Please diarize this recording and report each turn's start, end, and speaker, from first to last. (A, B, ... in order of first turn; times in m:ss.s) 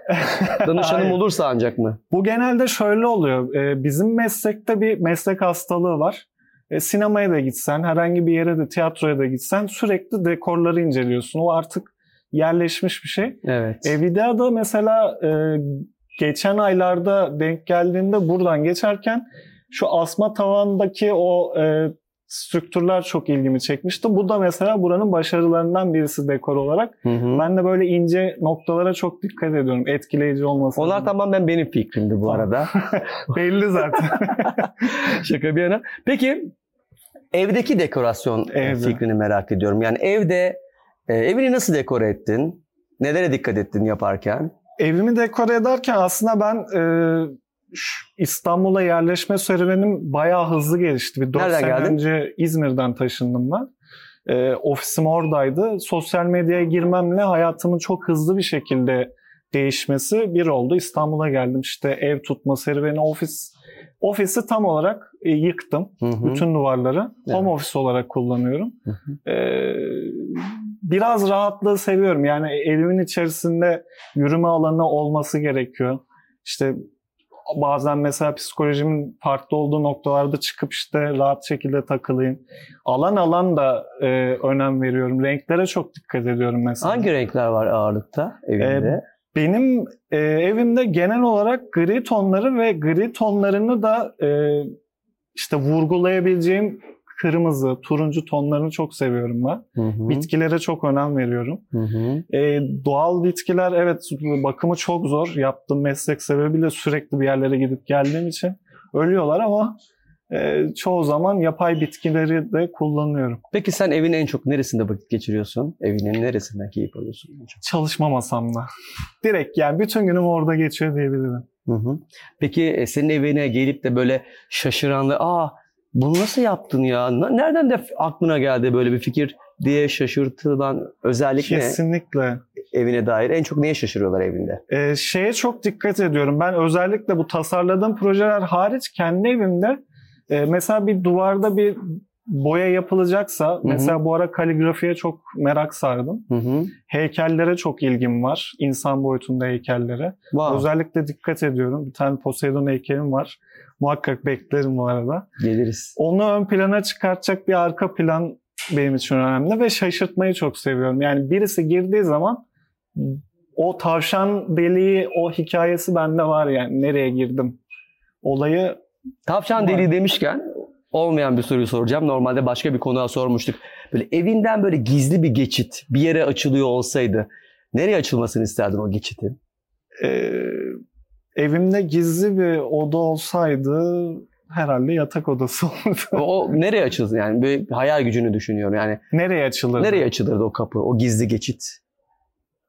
0:00.2-0:01.2 A
0:00.5-0:02.0 B
0:02.1-0:31.1 A
0:13.4-0:13.9 B
0:27.0-0:27.4 B
0:30.8-0:33.0 B
0:32.3-0:34.6 A
0:34.3-0:36.5 B
0:37.3-0:40.6 B
0:38.5-0:39.0 A
0:41.1-0:44.5 B
0:44.8-0:53.7 A
0:51.3-0:52.0 B
0:54.2-1:16.8 A
1:06.0-1:06.4 B
1:17.5-1:27.1 A
1:26.8-1:29.0 B
1:28.6-1:34.7 A
1:35.3-1:41.6 A
1:39.8-1:40.3 B
1:41.7-1:42.2 B
1:42.3-1:49.7 A
1:50.3-1:53.4 A
1:53.5-1:57.6 B
1:57.6-1:58.7 A
1:59.2-2:01.4 A
2:01.7-2:11.8 B
2:11.4-2:12.4 A
2:12.7-2:14.6 B
2:14.7-2:26.2 A
2:23.6-2:24.0 B
2:26.3-2:26.7 B
2:26.9-2:35.3 A
2:30.3-2:30.7 B
2:35.4-2:35.9 B
2:36.0-2:42.4 A
2:43.0-2:47.6 A
2:48.2-2:48.8 A
2:49.2-2:59.4 B
2:49.6-2:49.9 A
3:00.0-3:00.8 A
3:01.4-3:06.2 A
3:06.1-3:09.0 B
3:09.1-3:10.1 A
3:09.8-3:11.8 B